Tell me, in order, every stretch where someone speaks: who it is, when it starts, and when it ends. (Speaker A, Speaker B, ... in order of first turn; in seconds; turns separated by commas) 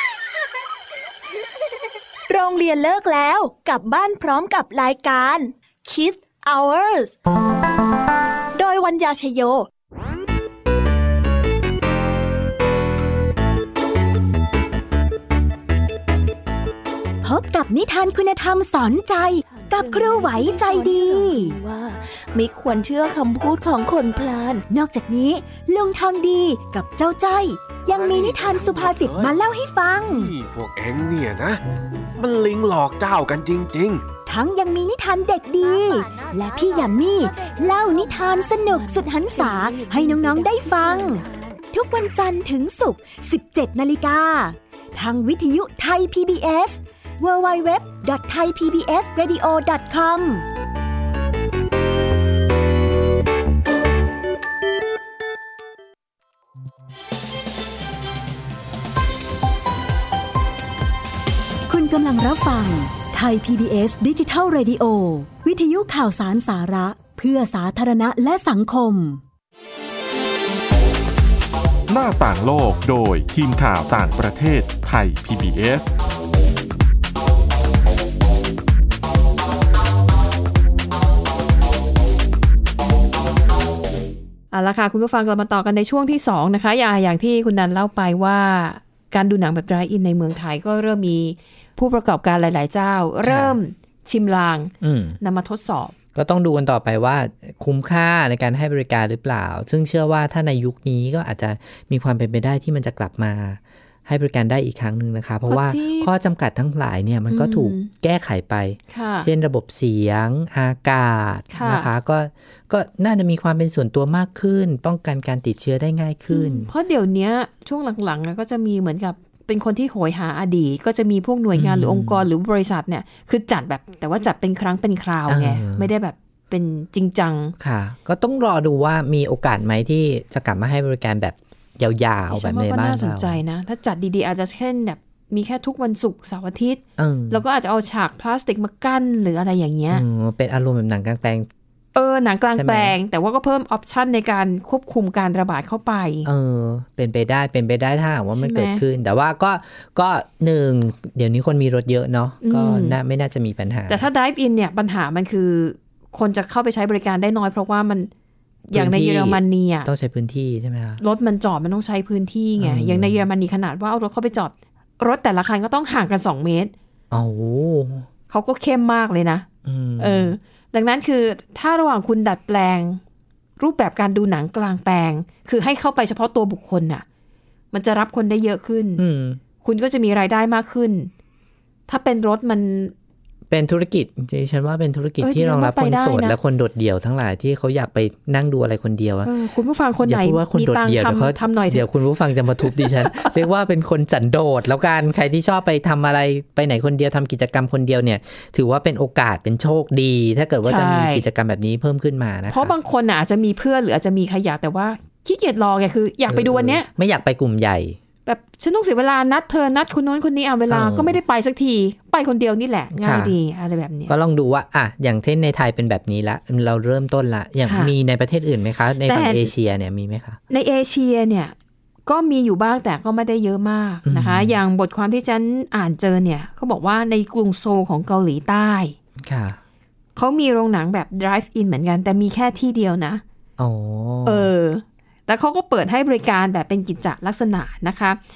Speaker A: 2.3-7.1, Speaker A: 8.5-9.7, Speaker B: 17.2-21.6, Speaker A: 19.5-24.6, Speaker B: 24.7-30.3, Speaker C: 27.9-29.4, Speaker C: 30.1-31.6, Speaker C: 32.2-34.0, Speaker B: 34.2-50.5, Speaker A: 35.7-41.6, Speaker B: 61.7-69.2, Speaker D: 71.9-75.9, Speaker E: 84.5-95.9, Speaker F: 93.2-93.5, Speaker F: 94.8-95.2, Speaker F: 96.1-116.7, Speaker E: 105.5-106.1, Speaker E: 107.3-107.9, Speaker E: 108.9-109.3, Speaker E: 111.5-111.9, Speaker E: 116.3-127.5, Speaker F: 121.5-122.2, Speaker F: 125.3-125.9, Speaker F: 127.6-133.4, Speaker E: 132.3-140.0, Speaker F: 137.0-137.4, Speaker F: 139.9-141.5, Speaker E: 141.9-146.3, Speaker F: 142.5-142.9, Speaker F: 146.2-154.1, Speaker E: 148.3-148.8, Speaker E: 152.4-153.0, Speaker E: 153.9-158.1, Speaker E: 158.7-159.9, Speaker F: 158.7-161.0, Speaker E: 161.0-166.7, Speaker F: 162.6-163.2, Speaker F: 167.1-168.1, Speaker E: 168.3-169.4, Speaker F: 169.6-170.3, Speaker E: 170.0-173.0, Speaker E: 173.6-177.0, Speaker E: 177.7-179.0, Speaker F: 179.0-179.4, Speaker E: 179.6-181.1, Speaker E: 181.9-182.9, Speaker F: 183.5-189.3, Speaker E: 185.2-186.3, Speaker E: 189.2-191.8, Speaker F: 190.0-202.7, Speaker E: 192.8-193.3, Speaker E: 200.6-201.2, Speaker E: 202.5-206.9, Speaker F: 206.3-208.0, Speaker E: 208.2-214.1, Speaker F: 210.7-211.2, Speaker F: 212.9-213.3, Speaker F: 214.1-220.4, Speaker E: 217.6-217.9, Speaker E: 219.0-219.5, Speaker E: 220.5-221.5, Speaker E: 222.1-228.9, Speaker F: 224.1-224.6, Speaker F: 229.2-229.6, Speaker E: 230.2-233.2, Speaker F: 233.6-234.5, Speaker E: 234.2-238.2